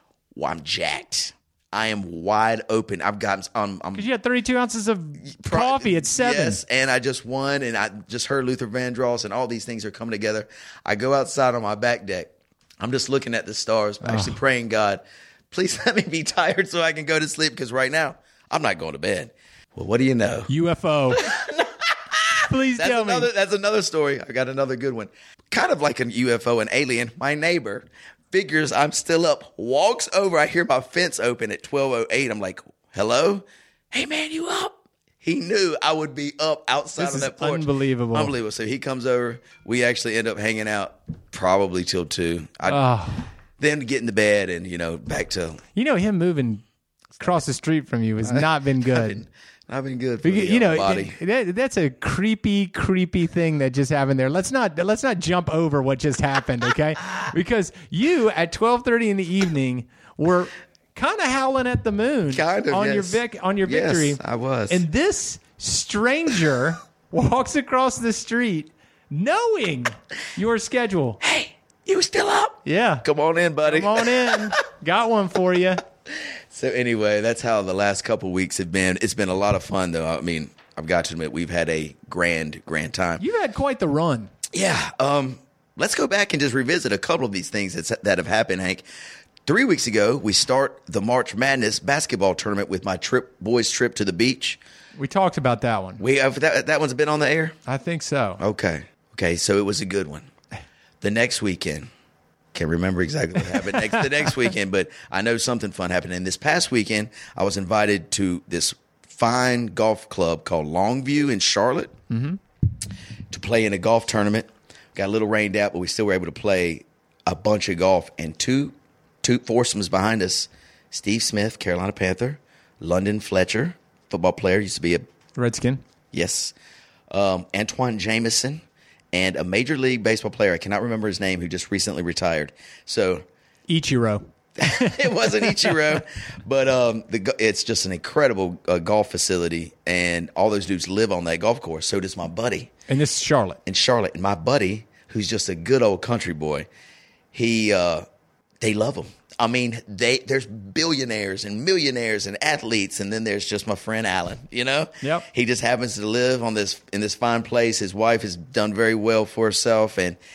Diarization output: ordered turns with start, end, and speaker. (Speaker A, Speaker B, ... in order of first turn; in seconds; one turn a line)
Speaker A: 0.3-4.1
Speaker B: 4.0-6.6
Speaker A: 5.3-20.5
Speaker B: 14.0-14.4
Speaker B: 20.5-21.3
Speaker A: 21.1-42.8
Speaker B: 22.4-23.3
Speaker B: 37.0-38.3
Speaker B: 42.7-43.3
Speaker A: 43.6-45.6
Speaker B: 45.8-46.6
Speaker B: 47.2-49.2
Speaker A: 48.2-51.2
Speaker B: 50.2-71.2
Speaker A: 62.3-64.8
Speaker A: 71.2-74.5
Speaker B: 72.7-73.0
Speaker B: 73.6-75.8
Speaker A: 76.5-83.2
Speaker B: 83.2-84.3
Speaker A: 84.5-88.8
Speaker A: 89.5-94.6
Speaker B: 95.0-96.0
Speaker A: 96.0-97.6
Speaker B: 97.7-98.4
Speaker A: 98.4-100.3
Speaker A: 101.0-101.9
Speaker A: 102.5-112.0
Speaker B: 112.1-112.4
Speaker A: 113.3-125.1
Speaker B: 125.4-125.8
Speaker A: 126.1-126.5
Speaker A: 127.1-133.2
Speaker B: 133.7-136.0
Speaker A: 134.6-142.7
Speaker B: 142.9-143.6
Speaker A: 143.7-146.7
Speaker A: 147.3-148.1
Speaker A: 148.6-160.2